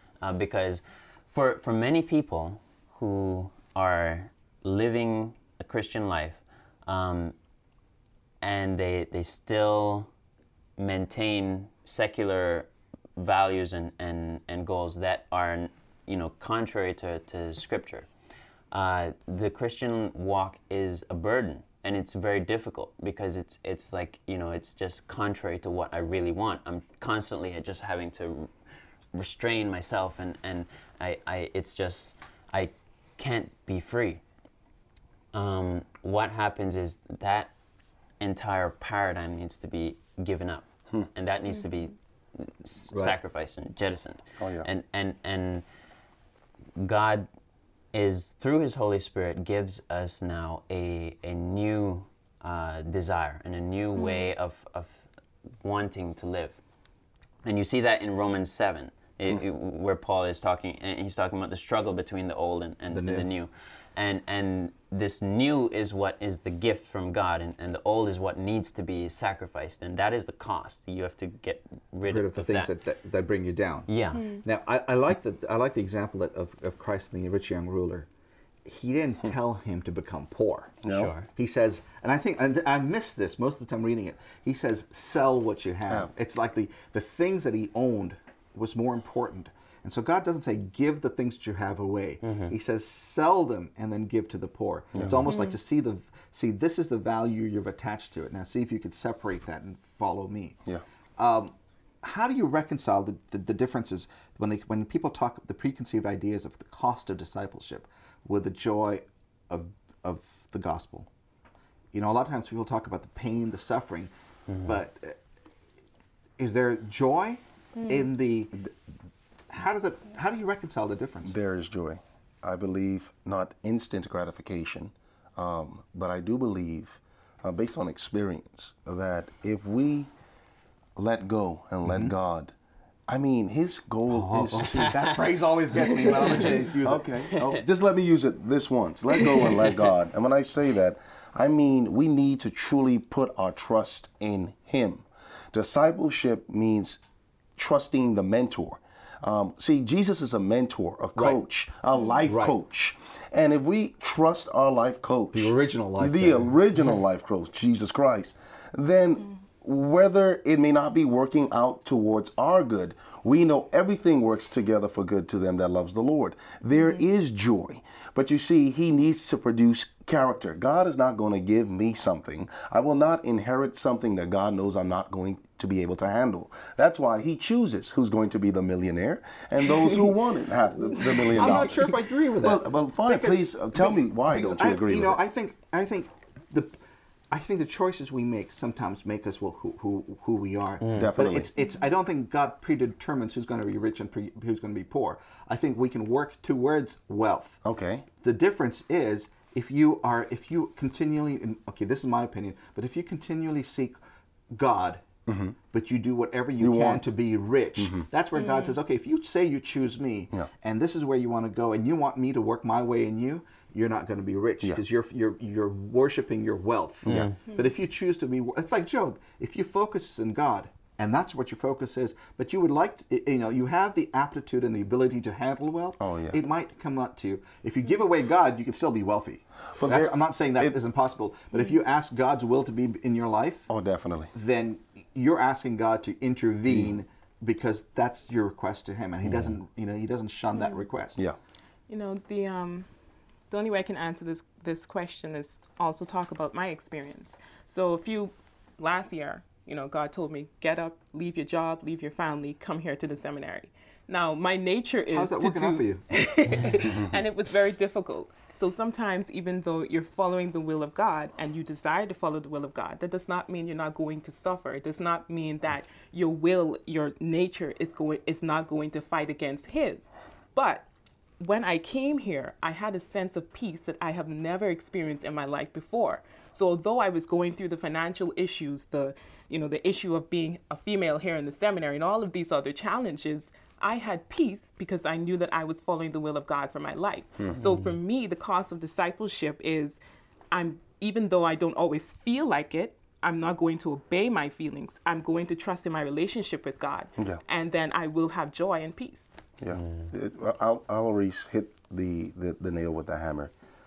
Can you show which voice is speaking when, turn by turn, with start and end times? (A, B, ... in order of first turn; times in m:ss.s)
0:00.2-0:07.4 A
0:08.4-0:10.1 A
0:10.8-0:18.1 A
0:18.7-0:28.5 A
0:29.1-0:34.2 A
0:35.3-0:37.5 A
0:38.2-0:45.6 A
0:42.9-0:43.2 B
0:44.4-0:44.7 C
0:46.8-0:47.3 A
0:47.9-0:55.0 A
0:54.0-0:54.3 D
0:55.6-0:56.6 A
0:57.4-1:12.7 A
1:02.9-1:03.3 B
1:12.0-1:18.1 B
1:13.9-1:14.4 A
1:14.1-1:14.4 D
1:18.6-1:20.8 B
1:20.8-1:21.1 C
1:20.9-1:21.3 A
1:21.4-1:40.6 B
1:32.2-1:32.5 A
1:34.9-1:35.2 C
1:35.2-1:35.6 D
1:41.2-1:51.1 B
1:51.9-1:55.2 B
1:56.4-1:58.6 B
1:57.8-1:58.1 D
1:59.5-2:01.4 B
2:01.3-2:10.1 C
2:11.0-2:12.5 C
2:11.8-2:12.1 B
2:13.1-2:15.0 C
2:14.1-2:17.1 B
2:16.8-2:27.0 C
2:27.6-3:05.2 C
2:31.2-2:31.4 B
2:32.2-2:32.6 B
2:35.3-2:36.5 B
3:01.4-3:06.8 B
3:07.3-3:17.6 B
3:10.8-3:11.1 A
3:10.9-3:11.5 C
3:17.6-3:18.1 C
3:18.2-3:24.0 B
3:24.5-3:25.0 B
3:25.3-3:25.6 C
3:25.7-3:53.7 B
3:26.6-3:27.1 C
3:27.8-3:28.1 C
3:28.4-3:28.8 D
3:37.0-3:37.3 C
3:37.1-3:37.4 A
3:46.0-3:46.4 C
3:49.8-3:50.1 C
3:53.7-3:54.3 C
3:54.3-4:01.2 B
4:00.6-4:00.9 D
4:01.9-4:02.9 D
4:03.5-4:30.9 D
4:15.1-4:16.0 B
4:31.4-4:50.0 D
4:50.5-4:59.4 D
4:59.6-5:03.5 C
4:59.7-5:00.1 A